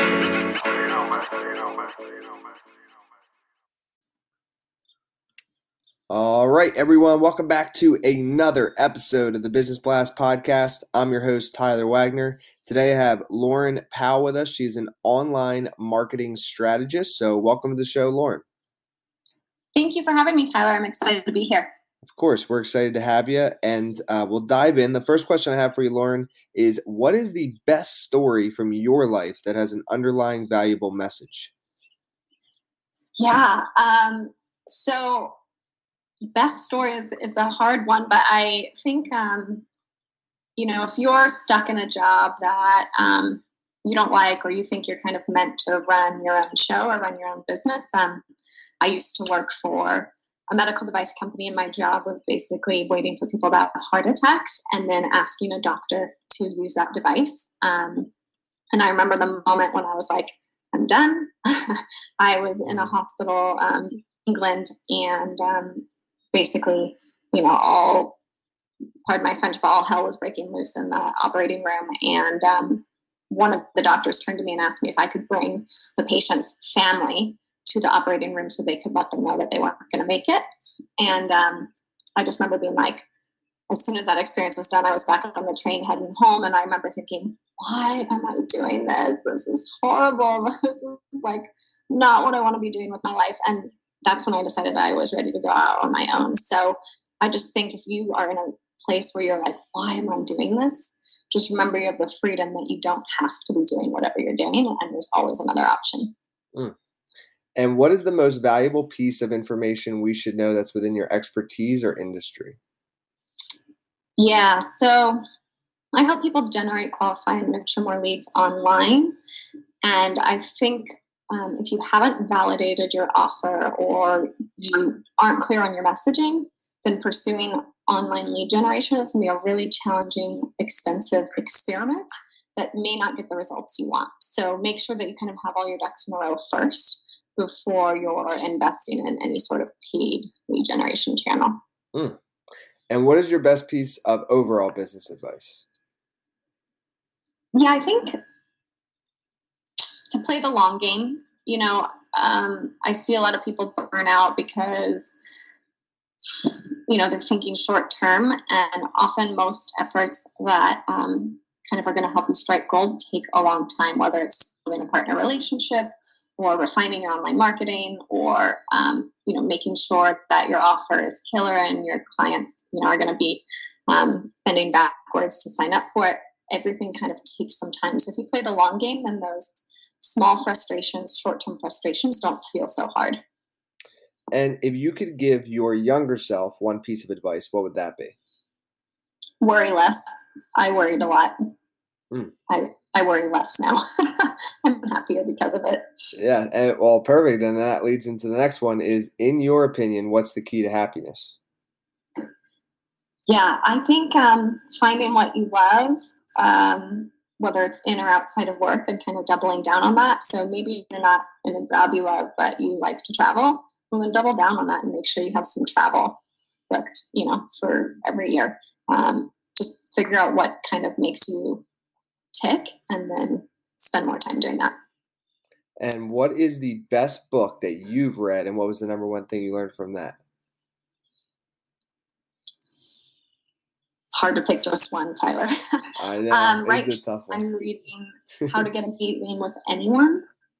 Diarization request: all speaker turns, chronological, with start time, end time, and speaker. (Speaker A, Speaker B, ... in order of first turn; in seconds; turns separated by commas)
Speaker A: 6.1-18.4, Speaker B: 19.8-21.7, Speaker A: 22.1-31.5, Speaker B: 33.2-35.4, Speaker B: 36.3-39.7, Speaker B: 40.6-48.2, Speaker B: 48.8-58.1, Speaker B: 58.7-68.2, Speaker B: 69.1-80.4, Speaker B: 81.0-83.0, Speaker B: 83.7-106.1, Speaker A: 107.6-112.6, Speaker B: 114.2-115.2, Speaker B: 115.9-119.2, Speaker B: 119.8-141.6, Speaker A: 142.9-145.6, Speaker B: 147.5-148.2, Speaker B: 150.1-155.2, Speaker B: 156.4-183.2, Speaker A: 184.3-188.2, Speaker B: 189.4-191.3, Speaker B: 192.5-195.9, Speaker A: 196.2-201.3, Speaker B: 203.3-221.7, Speaker B: 222.3-224.7, Speaker A: 225.8-230.2, Speaker B: 234.1-240.2, Speaker A: 236.0-237.4